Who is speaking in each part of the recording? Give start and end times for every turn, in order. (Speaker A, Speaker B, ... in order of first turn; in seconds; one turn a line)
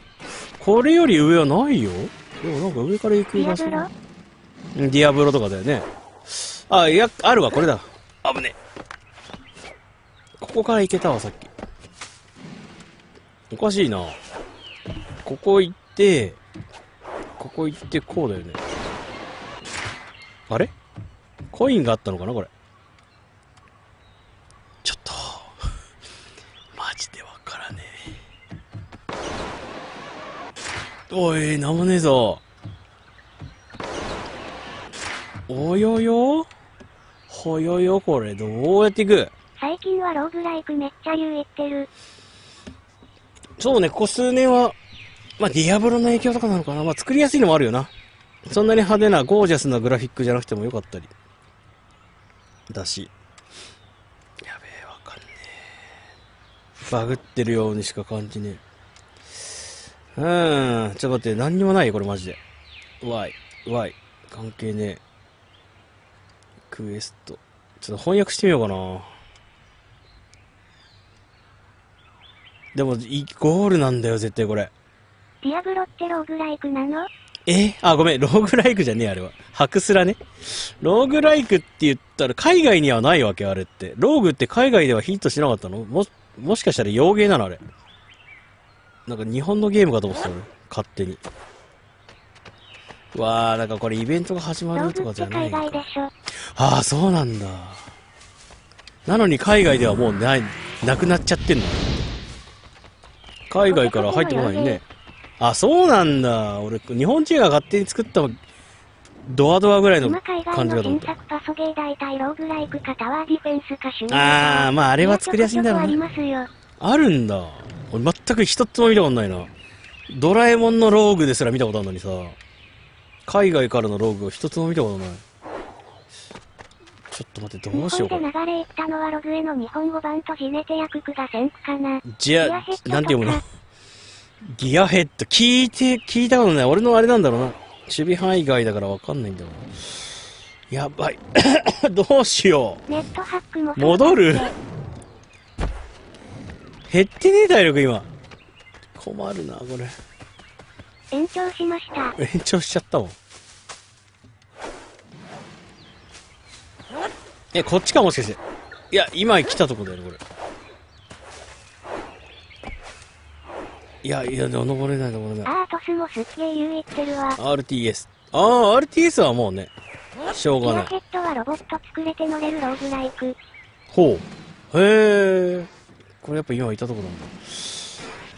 Speaker A: 0.6-3.9
Speaker B: 3.4-3.9
Speaker A: 4.8-8.6
Speaker A: 10.4-11.5
Speaker A: 13.5-14.2
Speaker A: 15.2-16.4
Speaker A: 17.4-18.6
Speaker A: 21.5-22.5
Speaker A: 24.8-25.6
Speaker A: 26.7-28.1
Speaker A: 31.1-32.4
Speaker A: 35.5-36.5
Speaker A: 37.3-39.3
Speaker B: 39.6-41.9
Speaker A: 43.6-44.8
Speaker A: 45.4-47.9
Speaker A: 48.5-51.1
Speaker A: 52.7-53.1
Speaker A: 54.4-55.7
Speaker A: 56.9-58.6
Speaker A: 60.1-62.4
Speaker A: 63.0-65.0
Speaker A: 66.7-69.1
Speaker A: 72.7-74.7
Speaker B: 75.4-77.1
Speaker A: 77.5-87.6
Speaker A: 89.1-91.2
Speaker A: 93.1-95.8
Speaker B: 94.8-96.1
Speaker A: 96.3-97.9
Speaker A: 99.0-102.1
Speaker A: 103.5-104.8
Speaker B: 103.7-104.8
Speaker A: 105.4-108.4
Speaker A: 109.3-111.1
Speaker B: 110.0-116.5
Speaker A: 114.1-116.0
Speaker A: 116.8-119.5
Speaker A: 120.1-122.4
Speaker A: 123.3-125.2
Speaker A: 127.1-128.3
Speaker B: 127.7-133.4
Speaker A: 132.1-133.4
Speaker A: 134.4-139.7
Speaker A: 140.7-142.8
Speaker B: 142.9-144.5
Speaker A: 143.8-144.5
Speaker A: 146.9-148.1
Speaker A: 148.9-150.0
Speaker B: 151.1-152.2
Speaker A: 152.2-153.2
Speaker A: 157.5-158.4
Speaker A: 158.9-160.2
Speaker A: 164.0-165.5
Speaker B: 165.4-167.4
Speaker A: 167.4-169.7
Speaker A: 170.3-170.9
Speaker B: 170.6-173.4
Speaker A: 173.9-175.7
Speaker A: 176.2-178.0